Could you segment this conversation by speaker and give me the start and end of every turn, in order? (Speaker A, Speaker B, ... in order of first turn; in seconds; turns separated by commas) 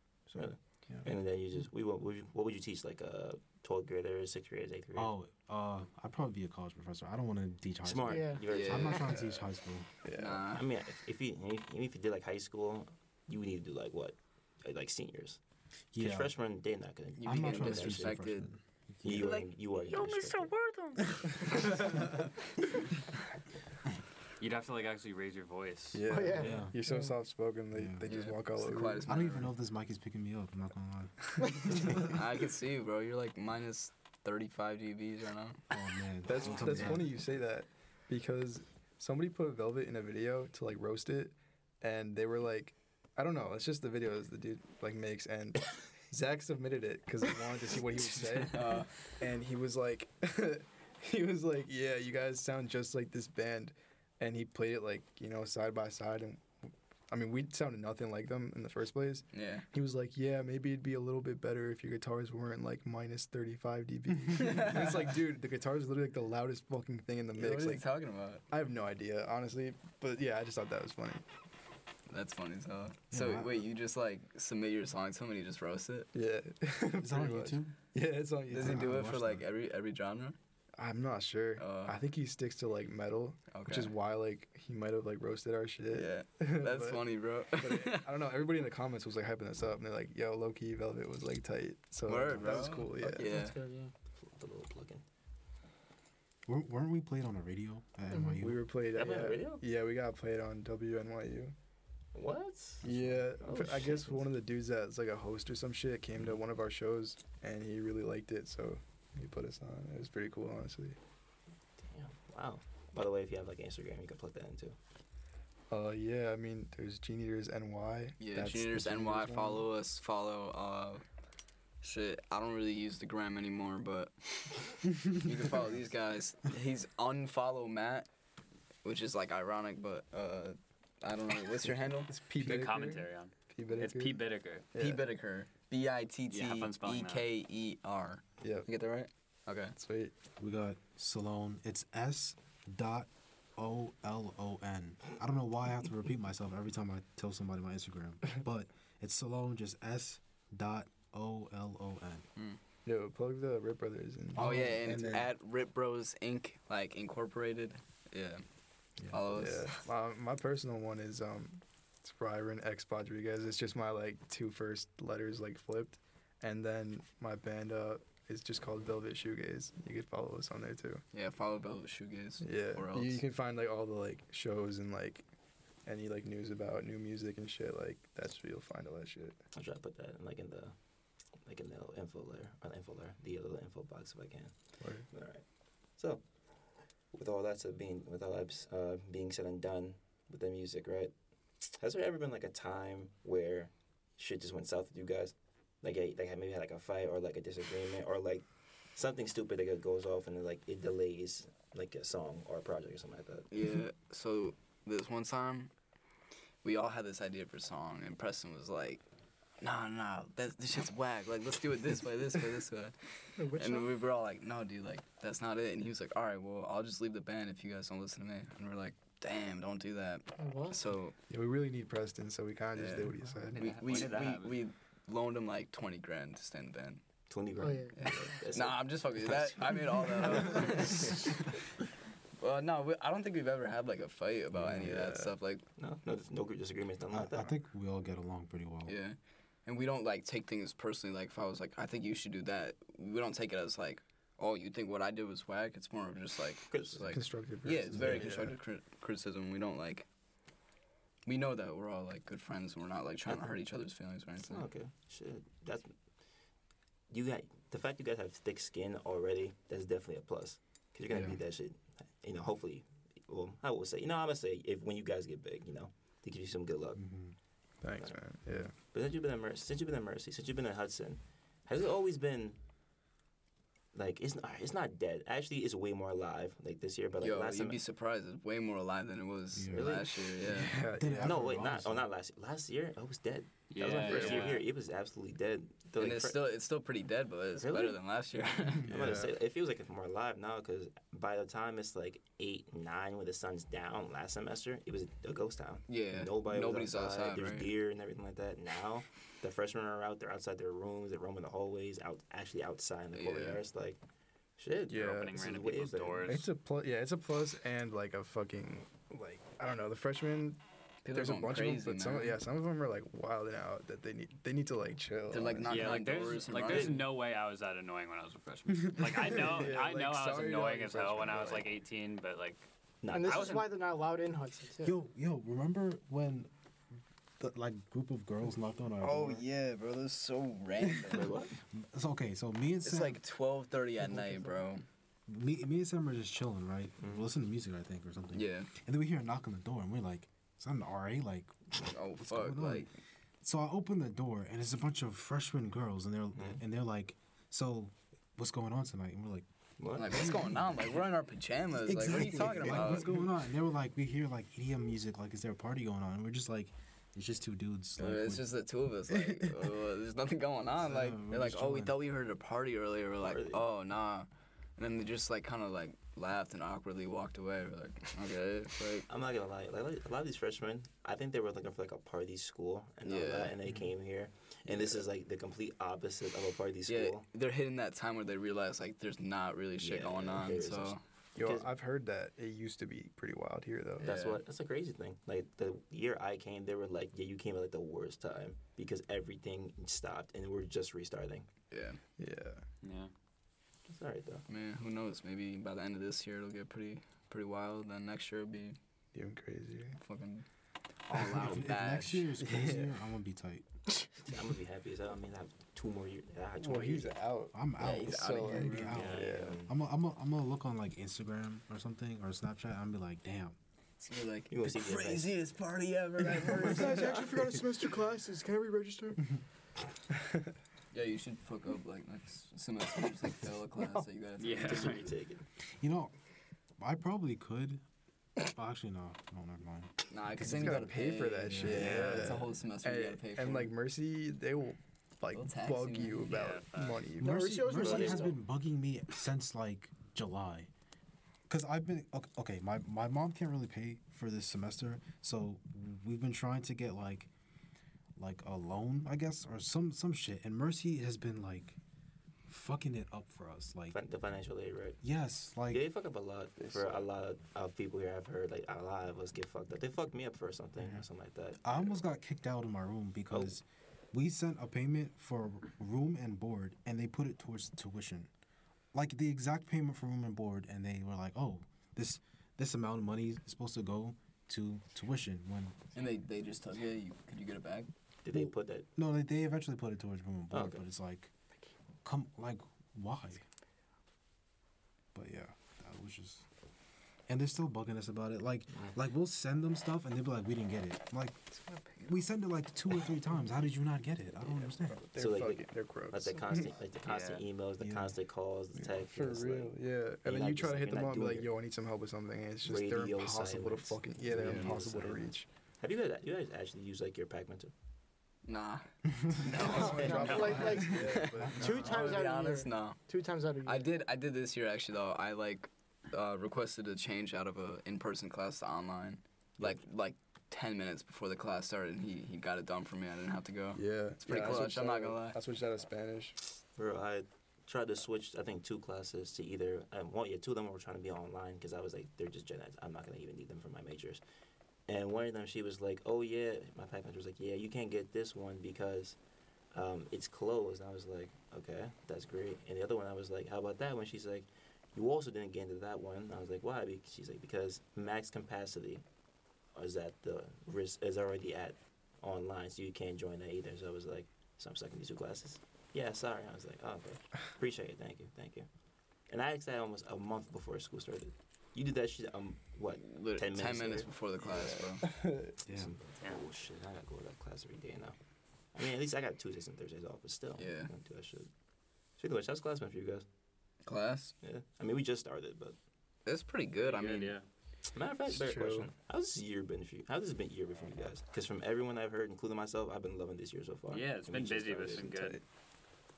Speaker A: 0.3-1.1, Speaker B: 0.3-5.1, Speaker A: 4.9-9.9, Speaker B: 7.8-9.2, Speaker C: 8.1-8.8, Speaker D: 8.5-9.1, Speaker E: 9.1-9.4, Speaker E: 10.0-10.5, Speaker D: 10.1-10.6, Speaker B: 10.5-15.4, Speaker A: 15.9-16.3, Speaker B: 16.0-18.2, Speaker D: 17.2-18.5, Speaker A: 17.2-19.4, Speaker B: 19.0-20.5, Speaker D: 19.1-21.8, Speaker F: 24.4-26.2, Speaker E: 25.9-29.2, Speaker C: 26.1-27.1, Speaker A: 26.4-26.7, Speaker A: 27.7-28.1, Speaker D: 28.1-29.5, Speaker A: 29.0-32.2, Speaker D: 31.7-35.6, Speaker A: 35.7-37.1, Speaker E: 36.2-56.5, Speaker D: 48.3-49.0, Speaker E: 57.1-67.9, Speaker D: 59.3-59.6, Speaker D: 64.3-64.9, Speaker D: 67.3-68.4, Speaker E: 68.5-71.2, Speaker D: 72.1-76.1, Speaker A: 73.1-73.6, Speaker E: 76.1-79.0, Speaker A: 77.0-77.8, Speaker D: 78.5-80.3, Speaker A: 78.5-79.4, Speaker E: 80.8-93.3, Speaker D: 81.6-82.0, Speaker D: 83.5-83.9, Speaker D: 85.9-88.1, Speaker D: 92.0-93.6, Speaker C: 93.0-93.9, Speaker B: 94.2-95.0, Speaker A: 96.5-98.6, Speaker E: 98.4-101.5, Speaker B: 98.9-99.6, Speaker B: 102.1-104.2, Speaker E: 102.8-111.0, Speaker B: 111.8-114.8, Speaker E: 115.7-119.7, Speaker D: 118.2-121.0, Speaker D: 121.8-128.1, Speaker D: 128.8-132.1, Speaker E: 132.1-135.1, Speaker F: 132.3-134.7, Speaker D: 134.8-139.7, Speaker F: 136.3-137.2, Speaker E: 138.4-138.7, Speaker E: 139.8-140.1, Speaker A: 140.4-152.2, Speaker E: 152.8-155.2, Speaker A: 154.3-155.3, Speaker D: 154.4-158.4, Speaker D: 159.1-159.8, Speaker E: 159.3-171.0, Speaker D: 171.1-173.2, Speaker E: 172.4-175.2, Speaker E: 175.8-179.4, Speaker B: 179.5-180.7, Speaker B: 181.4-185.4, Speaker E: 184.8-185.1, Speaker B: 185.9-186.2, Speaker B: 187.1-203.5, Speaker D: 203.5-205.7, Speaker D: 206.6-209.0, Speaker D: 209.6-221.1, Speaker C: 213.4-213.9, Speaker C: 220.4-220.8, Speaker E: 221.3-223.7, Speaker D: 222.7-227.0, Speaker F: 223.5-224.6, Speaker B: 227.3-231.2, Speaker C: 227.6-228.1, Speaker D: 227.9-231.6, Speaker D: 232.4-235.7, Speaker A: 234.6-234.9, Speaker E: 234.8-235.3, Speaker B: 235.8-237.5, Speaker A: 237.1-238.9, Speaker D: 238.8-250.1, Speaker B: 246.7-247.2, Speaker E: 247.1-248.5, Speaker A: 248.0-248.4, Speaker D: 251.2-254.7, Speaker B: 254.4-255.9, Speaker B: 257.1-267.0, Speaker A: 266.9-267.3, Speaker E: 267.8-268.7, Speaker B: 268.8-272.6, Speaker B: 273.9-277.8, Speaker D: 277.2-280.8, Speaker A: 279.5-279.9, Speaker B: 279.7-280.2, Speaker E: 280.4-281.5, Speaker A: 280.9-282.1, Speaker B: 281.2-286.4, Speaker F: 283.7-284.6, Speaker E: 284.0-284.5, Speaker D: 286.0-288.9, Speaker B: 287.6-288.0, Speaker B: 288.9-304.0, Speaker E: 288.9-289.3, Speaker D: 295.9-297.7, Speaker D: 303.1-303.6, Speaker B: 304.6-306.3, Speaker E: 304.9-305.5, Speaker F: 305.0-306.5, Speaker E: 306.2-310.6, Speaker D: 311.0-312.4, Speaker E: 311.1-315.9, Speaker D: 315.3-317.1, Speaker F: 315.6-323.7, Speaker E: 318.9-321.7, Speaker B: 323.0-323.6, Speaker C: 323.1-324.9, Speaker A: 324.8-326.5, Speaker A: 327.4-329.4, Speaker D: 329.0-331.4, Speaker B: 331.1-331.6, Speaker A: 331.7-333.2, Speaker D: 332.8-334.8, Speaker E: 334.2-334.5, Speaker A: 335.3-342.9, Speaker B: 337.0-337.2, Speaker D: 338.3-338.7, Speaker D: 341.8-342.9, Speaker A: 343.4-349.4, Speaker B: 346.3-346.6, Speaker B: 349.8-350.4, Speaker D: 350.0-353.2, Speaker A: 350.0-350.9, Speaker A: 351.8-358.5, Speaker D: 358.0-369.1, Speaker E: 359.3-359.7, Speaker A: 360.8-361.9, Speaker B: 363.2-363.6, Speaker B: 369.1-377.2, Speaker D: 373.0-373.5, Speaker D: 374.7-374.9, Speaker D: 376.9-381.0, Speaker B: 379.8-381.7, Speaker E: 381.4-384.1, Speaker D: 384.0-384.4, Speaker B: 384.0-391.5, Speaker D: 391.7-392.0, Speaker E: 392.2-392.6, Speaker F: 392.8-393.1, Speaker B: 393.9-394.4, Speaker D: 394.5-398.8, Speaker E: 399.1-400.0, Speaker D: 400.0-400.4, Speaker D: 401.1-402.3, Speaker A: 401.3-403.7, Speaker E: 402.4-402.9, Speaker B: 404.2-407.2, Speaker E: 406.6-409.6, Speaker A: 407.5-413.6, Speaker D: 407.8-409.0, Speaker F: 408.9-409.5, Speaker B: 409.0-409.7, Speaker D: 414.0-417.3, Speaker B: 414.5-415.4, Speaker E: 416.5-419.3, Speaker D: 420.9-425.0, Speaker F: 424.4-425.1, Speaker B: 424.6-425.4, Speaker A: 425.7-426.1, Speaker A: 426.8-427.8, Speaker A: 428.4-430.8, Speaker D: 430.1-433.7, Speaker E: 430.4-438.1, Speaker A: 431.4-432.5, Speaker F: 431.7-432.3, Speaker D: 435.3-436.3, Speaker F: 436.2-437.1, Speaker A: 437.2-440.7, Speaker C: 437.2-438.3, Speaker B: 437.8-438.3, Speaker A: 441.5-447.3, Speaker A: 448.1-451.8, Speaker A: 452.5-454.0, Speaker B: 453.9-455.0, Speaker A: 455.0-455.8, Speaker B: 455.7-462.0, Speaker E: 456.6-457.1, Speaker A: 460.8-461.0, Speaker A: 461.6-468.3, Speaker A: 468.9-475.8, Speaker D: 475.9-477.9, Speaker B: 478.2-478.9, Speaker A: 478.3-481.3, Speaker B: 480.5-480.8, Speaker A: 482.0-483.4, Speaker A: 485.1-486.4, Speaker A: 487.3-491.4, Speaker A: 492.0-495.0, Speaker E: 494.7-496.7, Speaker B: 495.1-501.5, Speaker F: 497.0-497.4, Speaker A: 497.8-498.1, Speaker E: 498.7-505.4, Speaker B: 502.6-505.3, Speaker D: 504.3-504.7, Speaker F: 504.5-504.8, Speaker B: 505.8-507.7, Speaker D: 508.4-513.0, Speaker F: 509.5-510.8, Speaker E: 509.5-512.2, Speaker C: 509.6-513.9, Speaker A: 511.4-511.7, Speaker D: 513.6-525.4, Speaker E: 523.7-526.4, Speaker B: 526.8-534.2, Speaker B: 534.9-539.2, Speaker B: 539.7-549.0, Speaker B: 549.7-558.7, Speaker B: 559.3-564.1, Speaker D: 563.0-565.1, Speaker E: 564.6-565.5, Speaker A: 565.6-566.0, Speaker B: 565.7-568.1, Speaker B: 568.7-571.5, Speaker D: 570.6-570.9, Speaker B: 572.2-573.2, Speaker D: 573.8-574.3, Speaker B: 574.4-575.8, Speaker D: 576.2-577.3, Speaker F: 576.8-577.5, Speaker B: 577.9-585.2, Speaker E: 578.3-578.9, Speaker F: 583.9-585.4, Speaker E: 585.0-585.3